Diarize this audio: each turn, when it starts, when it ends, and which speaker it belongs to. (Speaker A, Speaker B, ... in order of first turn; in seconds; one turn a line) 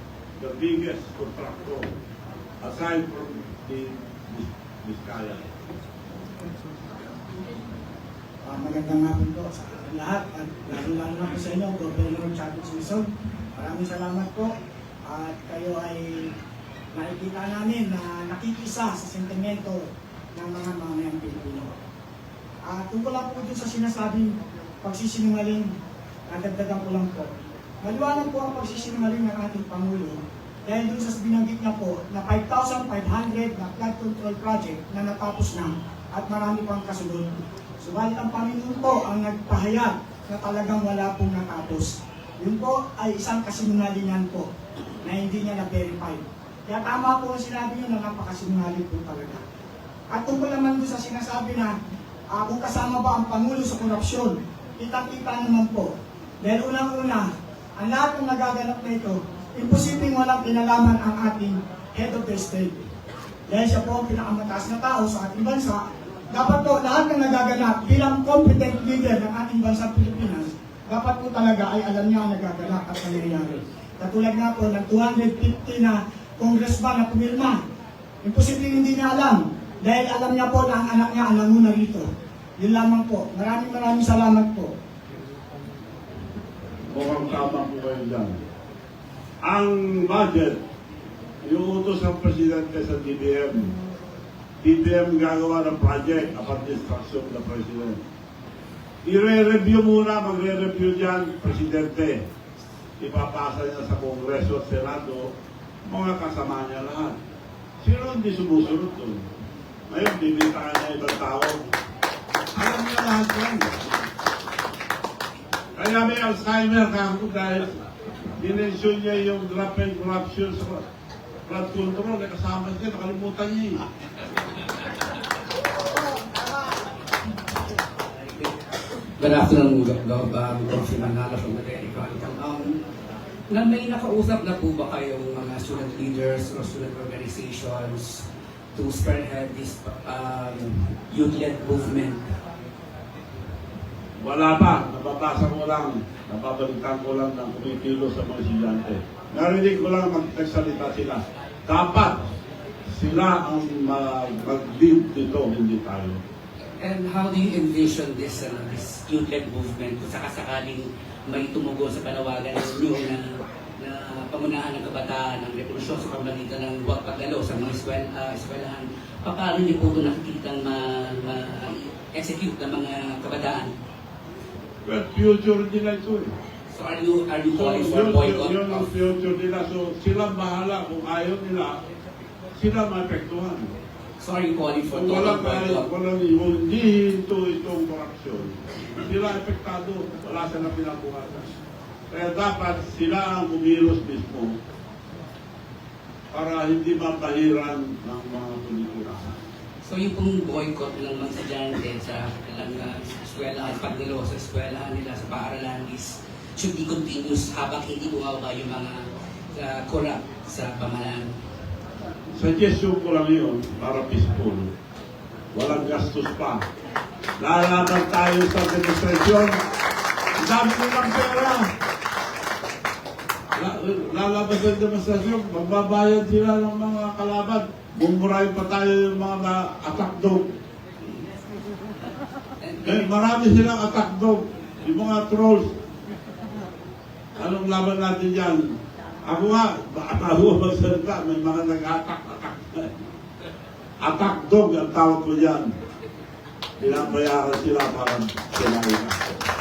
Speaker A: 0.4-1.9
Speaker A: 2.6-5.5
Speaker B: 8.4-14.5
Speaker B: 15.1-16.3
Speaker B: 16.9-21.7
Speaker B: 22.7-24.3
Speaker B: 24.8-25.7
Speaker B: 26.3-27.3
Speaker B: 27.8-44.5
Speaker B: 45.0-49.4
Speaker B: 50.1-51.7
Speaker B: 52.3-62.8
Speaker B: 63.5-77.6
Speaker B: 78.2-82.0
Speaker B: 82.6-84.7
Speaker A: 86.9-88.4
Speaker A: 89.4-90.6
Speaker A: 91.4-93.7
Speaker A: 94.6-98.0
Speaker A: 99.0-102.2
Speaker A: 103.0-105.3
Speaker A: 105.8-107.2
Speaker A: 107.8-109.2
Speaker A: 109.9-111.6
Speaker A: 112.5-113.8
Speaker A: 115.8-117.7
Speaker A: 118.4-120.8
Speaker A: 121.5-123.8
Speaker C: 128.2-128.5
Speaker C: 129.2-132.8
Speaker C: 133.5-142.2
Speaker A: 144.2-152.2
Speaker A: 152.9-156.2
Speaker C: 156.8-173.7
Speaker A: 174.8-176.3
Speaker C: 176.7-178.9
Speaker A: 177.5-181.8
Speaker A: 182.5-183.7
Speaker C: 184.2-185.9
Speaker A: 184.9-191.5
Speaker A: 192.1-194.6
Speaker A: 196.3-199.3
Speaker C: 199.8-209.0
Speaker C: 209.5-211.3
Speaker A: 212.3-214.7
Speaker A: 215.5-216.6
Speaker A: 217.4-219.6
Speaker A: 220.4-221.7
Speaker A: 223.5-230.5
Speaker C: 232.6-233.0
Speaker A: 232.8-235.7
Speaker A: 237.4-238.7
Speaker A: 239.2-242.9
Speaker A: 244.0-245.7
Speaker A: 246.8-249.3